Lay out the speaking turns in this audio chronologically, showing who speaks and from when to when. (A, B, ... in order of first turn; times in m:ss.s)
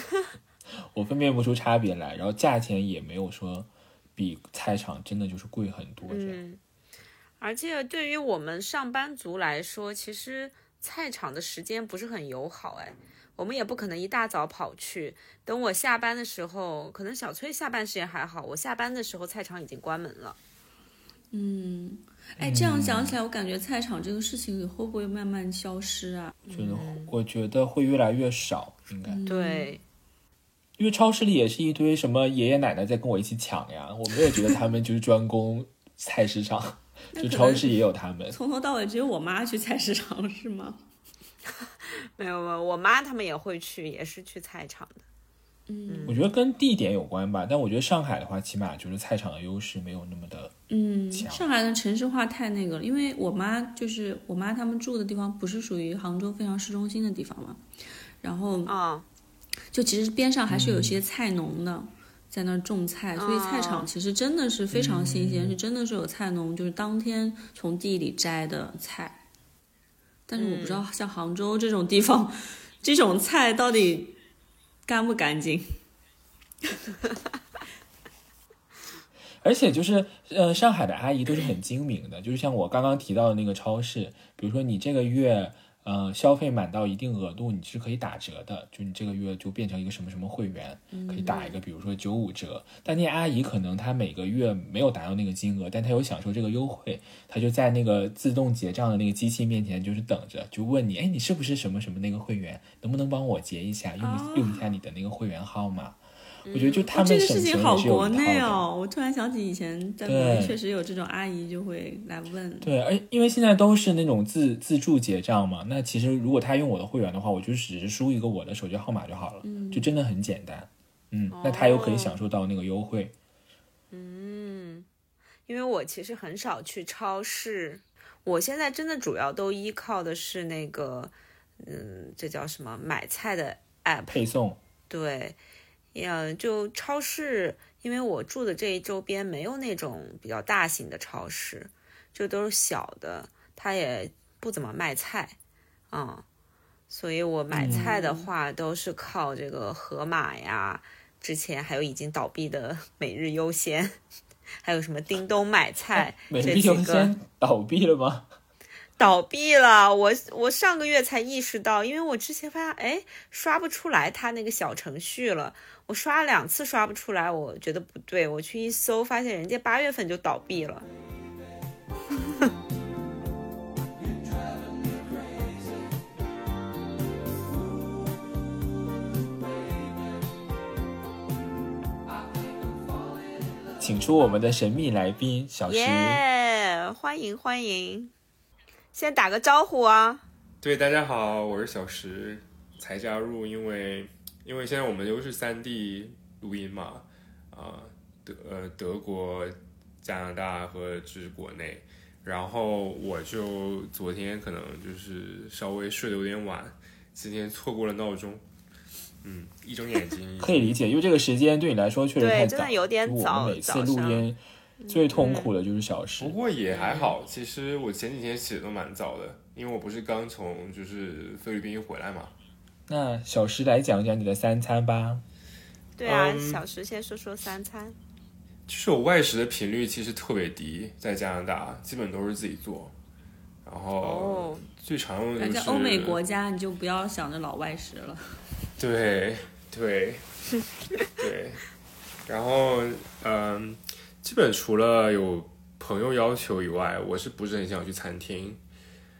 0:00.9-0:06.4 A
0:06.1-0:06.6 B
0:07.4-0:20.4 B
0:21.3-0:26.4 C
0:22.4-0:23.2 A
0:26.5-0:27.1 B
0:26.5-0:29.2 A
0:29.1-0:29.7 C
0:29.3-0:29.8 B
0:30.8-0:38.4 A
0:37.2-0:37.8 C
0:38.3-0:40.8 C
0:41.8-0:45.0 B
0:45.7-0:46.2 C
0:45.9-0:46.2 B
0:46.1-0:50.5 A
0:50.7-0:57.6 C
0:51.1-0:51.5 A
0:58.2-0:58.7 C
0:58.7-0:59.1 B
0:59.7-1:09.2 C
1:00.5-1:01.0 A
1:03.2-1:03.9 B
1:04.7-1:05.6 A
1:10.3-1:14.2 C
1:10.4-1:10.8 B
1:14.9-1:15.7 C
1:19.4-1:46.0 A
1:30.9-1:31.5 C
1:44.0-1:44.7 C
1:46.5-1:46.8 B
1:46.5-1:48.7 A
1:46.9-1:52.7 C
1:50.0-1:50.6 A
1:52.6-2:03.2 A
1:59.4-1:59.9 C
2:01.3-2:02.2 B
2:03.9-2:04.9 B
2:05.5-2:14.2 B
2:14.1-2:14.6 A
2:14.9-2:15.4 B
2:15.9-2:25.4 B
2:25.9-2:26.2 B
2:26.9-2:34.0 B
2:27.5-2:27.9 A
2:27.6-2:28.3 C
2:34.6-2:37.1 B
2:36.0-2:38.3 A
2:39.0-2:50.9 B
2:52.3-2:52.5 B
3:03.8-3:06.2 A
3:05.7-3:08.1 B
3:08.9-3:10.2 B
3:10.6-3:28.4 D
3:29.2-3:30.8 D
3:30.4-3:36.4 A
3:32.2-3:34.3 B
3:34.8-3:35.5 B
3:36.2-3:42.3 D
3:36.7-3:37.2 B
3:42.9-3:45.2 A
3:46.0-3:48.0 B
3:46.0-3:46.6 D
3:48.7-3:53.0 D
3:53.6-3:56.2 D
3:54.0-3:54.6 B
3:55.4-3:58.2 C
3:58.8-4:00.2 D
4:01.0-4:01.6 D
4:02.3-4:08.6 D